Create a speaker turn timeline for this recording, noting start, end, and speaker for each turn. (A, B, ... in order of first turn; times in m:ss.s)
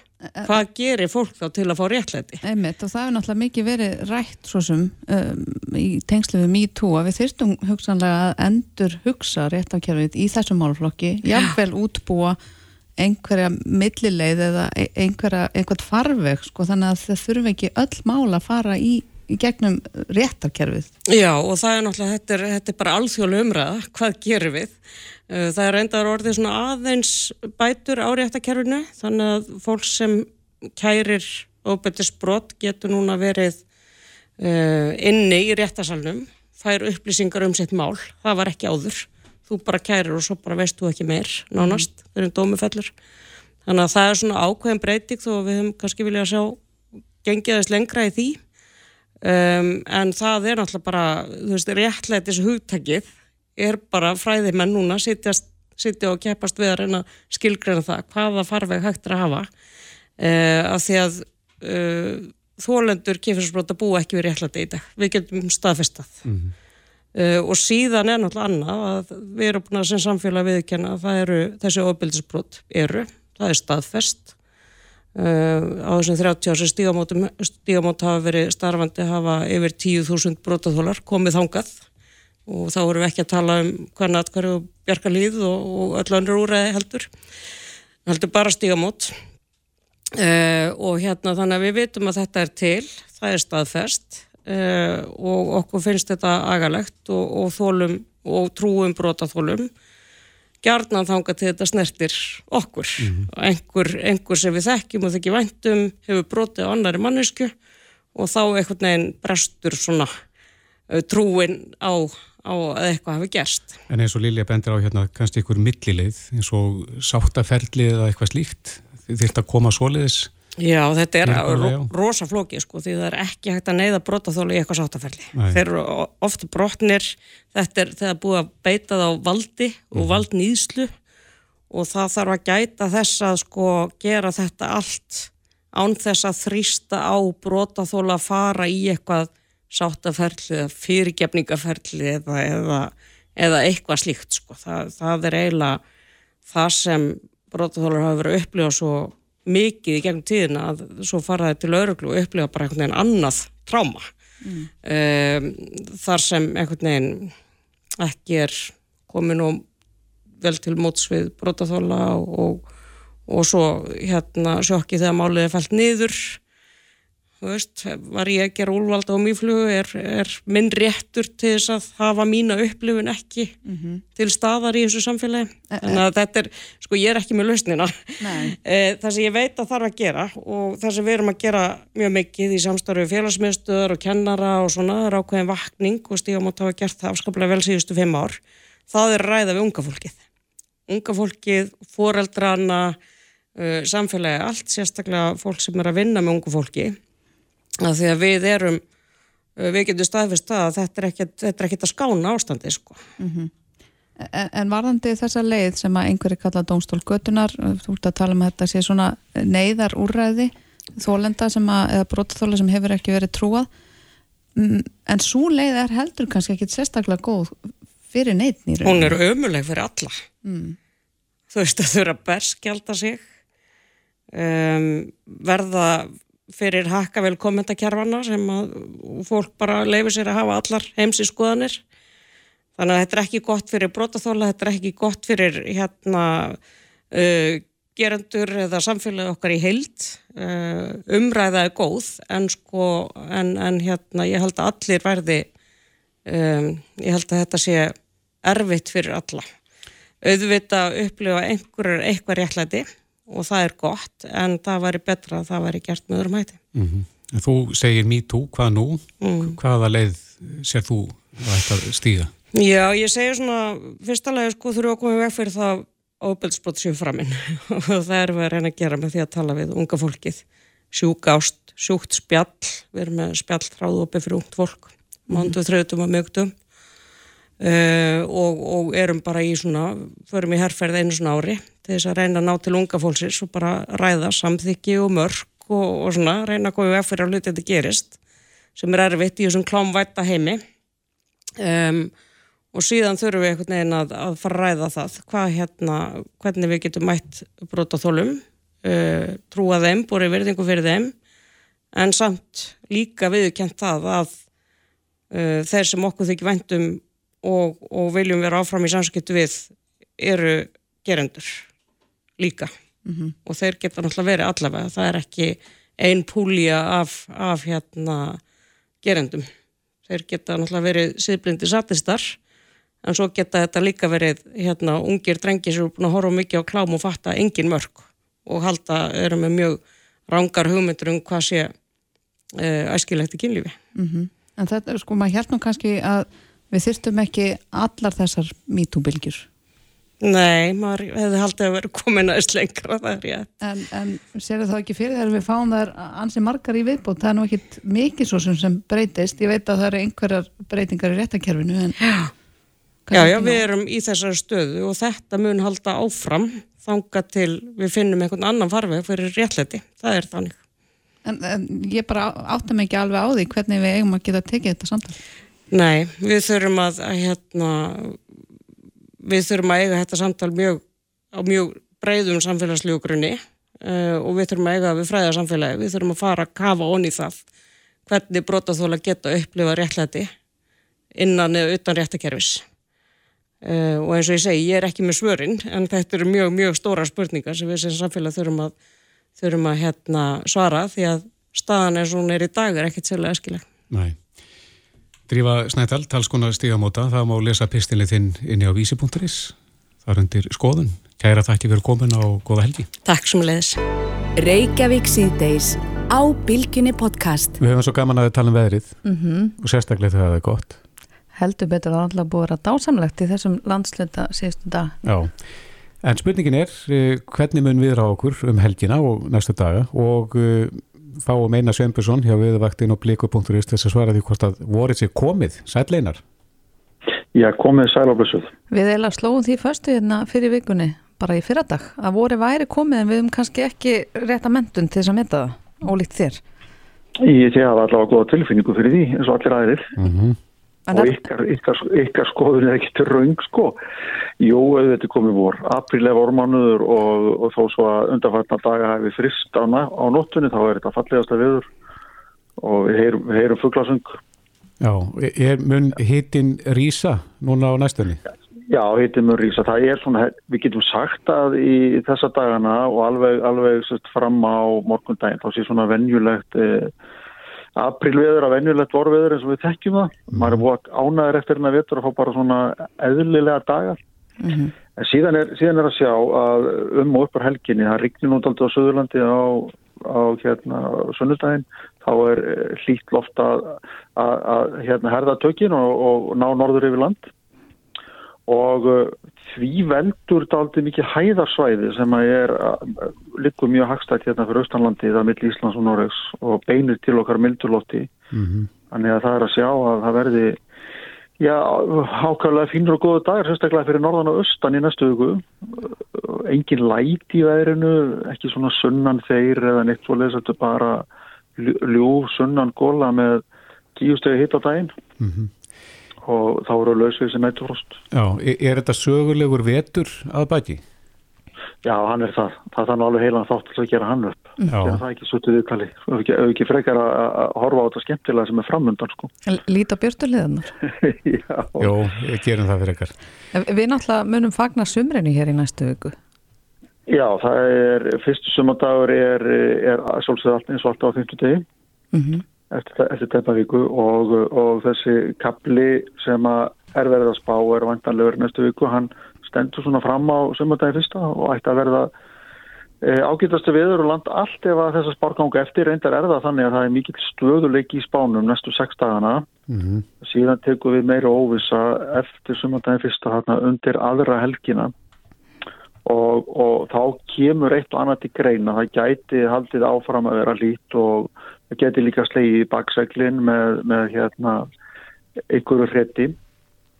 0:00.3-0:00.6 A
0:00.4-0:02.4 B
0:02.4-0:12.4 A
0:13.0-0:20.9 A
0:21.1-0:24.7 B
0:25.3-0:33.6 B
0:34.4-0:42.9 B
0:43.6-0:46.6 B
0:47.2-0:48.4 B
0:49.2-0:59.5 B
1:00.2-1:06.2 B
1:06.2-1:06.5 C
1:07.1-1:14.3 B
1:15.1-1:21.8 B
1:22.5-1:27.1 B
1:28.0-1:29.1 B
1:30.1-1:39.7 B
1:40.6-1:47.5 B
1:43.0-1:43.3 C
1:48.1-1:50.1 B
1:50.9-1:53.7 B
1:53.9-2:00.3 C
2:00.6-2:10.9 B
2:01.2-2:01.9 C
2:05.3-2:05.6 C
2:09.9-2:10.2 C
2:11.7-2:25.8 B
2:26.5-2:34.0 B
2:34.4-2:34.7 A
2:34.8-2:37.3 B
2:38.0-2:39.6 B
2:40.4-2:42.6 B
2:43.3-2:46.4 B
2:47.4-2:53.5 B
2:53.6-2:54.0 A
2:54.2-3:10.2 B
2:55.7-2:56.0 A
2:58.2-2:58.5 A
3:10.9-3:13.0 B
3:13.6-3:17.0 B
3:17.8-3:18.8 B
3:19.6-3:23.0 B
3:23.2-3:23.5 A
3:24.2-3:33.7 A
3:34.6-3:39.2 A
3:38.8-3:40.1 B
3:40.4-3:40.8 A
3:41.5-3:43.2 B
3:44.3-3:51.8 B
3:52.8-3:56.6 B
3:57.1-4:05.5 B
4:06.2-4:09.4 B
4:10.2-4:16.6 B
4:16.7-4:22.3 C
4:19.2-4:19.6 B
4:22.5-4:36.5 B
4:35.3-4:35.5 A
4:37.6-4:48.1 B
4:48.8-4:50.6 B
4:51.6-4:52.1 B
4:52.7-5:01.1 B
5:01.9-5:04.3 B
5:05.3-5:11.6 B
5:12.4-5:12.7 B
5:13.0-5:13.3 A
5:13.4-5:18.4 B
5:19.0-5:19.5 B
5:20.1-5:22.4 B
5:23.0-5:31.7 B
5:32.6-5:33.7 B
5:33.9-5:39.4 A
5:40.2-5:43.5 B
5:43.6-5:52.0 A
5:52.0-5:52.3 B
5:53.1-5:53.6 A
5:53.1-6:00.6 B
6:01.2-6:05.2 A
6:05.7-6:08.2 B
6:09.2-6:10.8 B
6:11.3-6:17.4 B
6:18.1-6:20.3 B
6:21.2-6:22.6 B
6:23.6-6:28.7 B
6:29.4-6:33.6 B
6:33.9-6:34.2 C
6:35.3-6:42.9 C
6:43.0-6:43.8 B
6:44.4-6:47.6 D
6:47.6-6:49.0 C
6:49.0-6:49.5 A
6:49.6-6:50.8 C
6:51.3-6:54.9 A
6:55.0-6:55.4 C
6:56.0-7:06.2 C
7:07.3-7:08.5 E
7:08.7-7:16.4 A
7:17.2-7:19.9 E
7:20.0-7:20.4 C
7:20.9-7:21.2 A
7:20.9-7:23.8 E
7:24.4-7:31.7 E
7:32.6-7:34.2 E
7:34.8-7:38.2 C
7:38.7-7:46.9 E
7:47.8-7:54.0 E
7:50.3-7:50.6 C
7:54.4-7:54.7 A
7:55.0-8:07.3 E
8:08.5-8:18.1 E
8:18.3-8:18.7 C
8:18.9-8:20.6 E
8:21.4-8:33.4 E
8:33.9-8:34.9 E
8:35.2-8:35.5 C
8:36.2-8:38.0 E
8:38.1-8:40.8 C
8:41.8-8:49.3 E
8:44.7-8:45.0 C
8:49.4-8:50.7 A
8:51.0-8:52.0 E
8:51.8-8:53.1 C
8:53.5-8:56.2 A
8:57.1-9:01.6 E
9:02.1-9:02.4 A
9:02.7-9:12.1 E
9:13.0-9:19.5 E
9:19.7-9:20.0 C
9:20.2-9:24.9 E
9:26.0-9:34.7 E
9:35.5-9:36.4 E